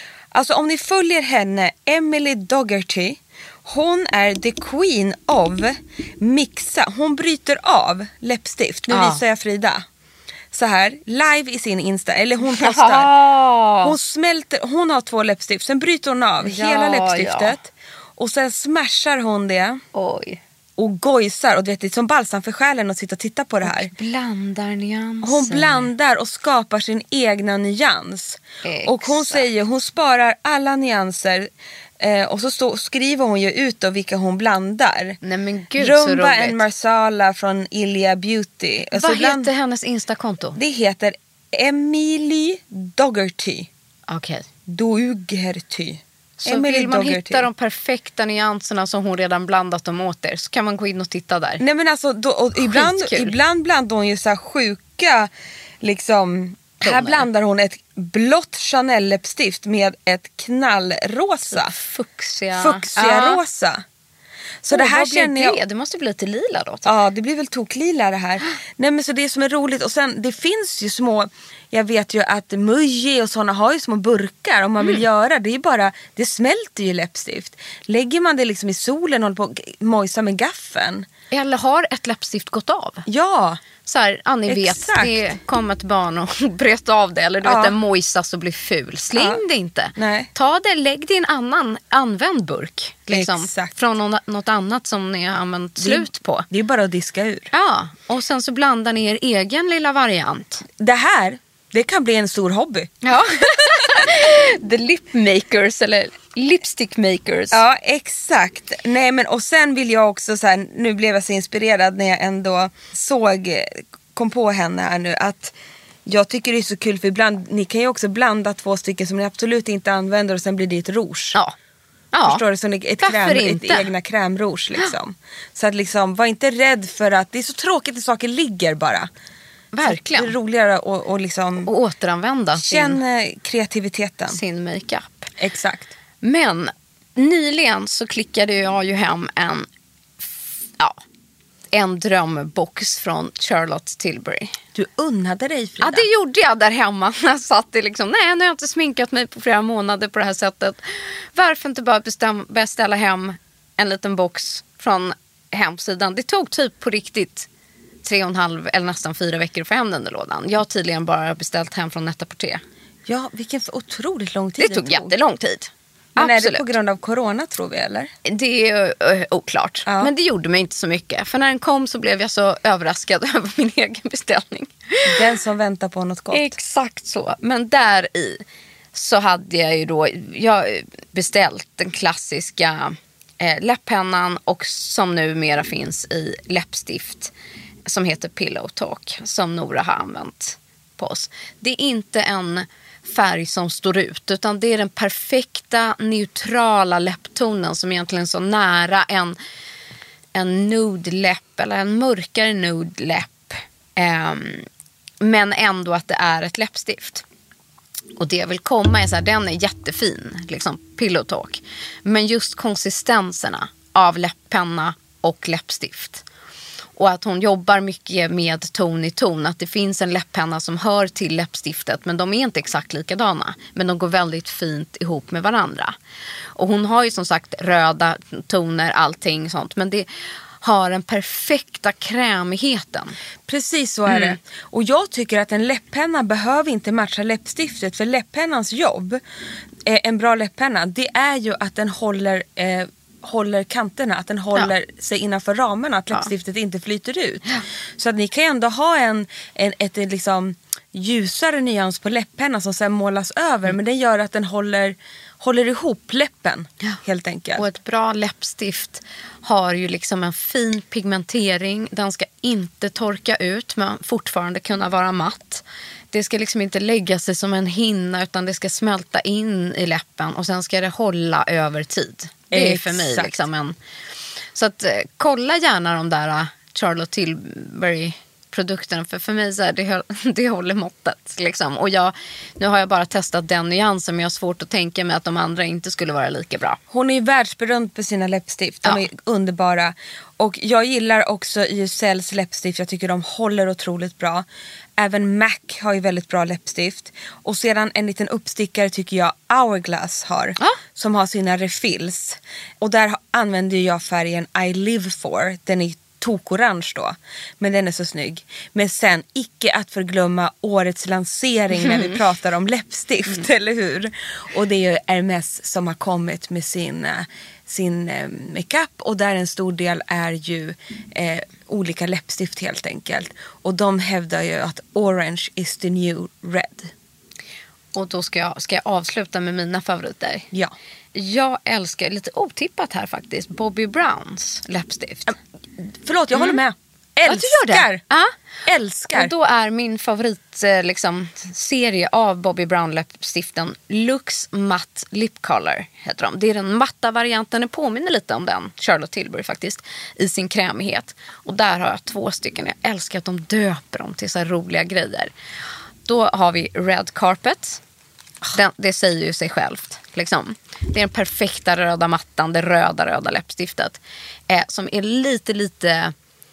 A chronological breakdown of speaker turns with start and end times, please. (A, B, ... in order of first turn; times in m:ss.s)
0:00.3-0:09.8 A
0:08.9-0:09.2 B
0:10.5-0:13.1 A
0:12.5-0:13.9 B
0:13.8-0:19.8 A
0:16.4-0:17.6 B
0:19.9-0:20.4 B
0:20.8-0:23.9 A
0:23.6-0:25.9 B
0:25.2-0:31.5 A
0:28.6-0:29.5 B
0:32.0-0:35.2 A
0:35.2-0:36.6 B
0:35.8-0:39.5 A
0:38.9-0:40.6 B
0:40.6-0:43.7 A
0:44.1-0:44.5 B
0:44.7-0:47.5 A
0:46.4-0:51.6 B
0:51.6-0:55.3 A
0:52.6-0:53.4 B
0:55.8-1:01.7 A
0:56.8-0:57.2 B
1:01.5-1:03.4 B
1:02.5-1:03.8 A
1:04.6-1:05.6 A
1:04.7-1:06.9 B
1:06.8-1:21.1 A
1:21.3-1:23.0 B
1:23.0-1:23.6 A
1:23.8-1:36.4 B
1:24.5-1:25.3 A
1:27.4-1:27.8 A
1:29.1-1:29.4 A
1:30.0-1:30.3 A
1:33.1-1:33.7 A
1:35.8-1:37.5 A
1:37.5-1:40.6 B
1:40.8-1:44.1 A
1:43.0-1:47.6 B
1:47.5-1:55.5 A
1:56.0-2:01.4 A
2:02.1-2:02.4 B
2:02.2-2:09.1 A
2:03.0-2:03.9 B
2:09.7-2:10.3 B
2:09.8-2:11.7 A
2:11.7-2:13.0 B
2:12.6-2:14.4 A
2:14.3-2:15.3 B
2:15.4-2:15.9 A
2:16.2-2:19.7 B
2:20.2-2:21.0 B
2:21.7-2:24.6 B
2:24.7-2:26.1 A
2:25.8-2:37.5 B
2:38.0-2:42.6 B
2:43.0-2:45.1 A
2:44.6-2:46.7 B
2:46.2-2:48.1 A
2:48.2-2:55.3 B
2:49.8-2:50.1 A
2:55.1-2:56.5 A
2:56.3-2:58.4 B
2:58.9-3:07.3 B
3:07.8-3:19.3 B
3:20.3-3:24.7 B
3:25.2-3:27.2 B
3:28.2-3:36.2 B
3:37.0-3:46.0 B
3:46.6-3:50.0 B
3:50.6-3:53.2 B
3:53.5-3:59.2 A
3:54.1-3:54.4 B
3:59.8-4:17.6 A
4:17.6-4:33.7 B
4:32.5-4:33.4 A
4:34.5-4:46.8 B
4:46.9-4:54.4 A
4:55.0-5:26.9 A
5:11.7-5:12.2 B
5:27.9-5:30.5 B
5:31.1-5:35.4 B
5:35.9-5:38.0 A
5:36.3-5:36.6 B
5:37.2-5:38.3 B
5:38.6-5:39.3 A
5:39.1-5:55.3 B
5:56.0-5:57.8 B
5:58.5-6:06.1 B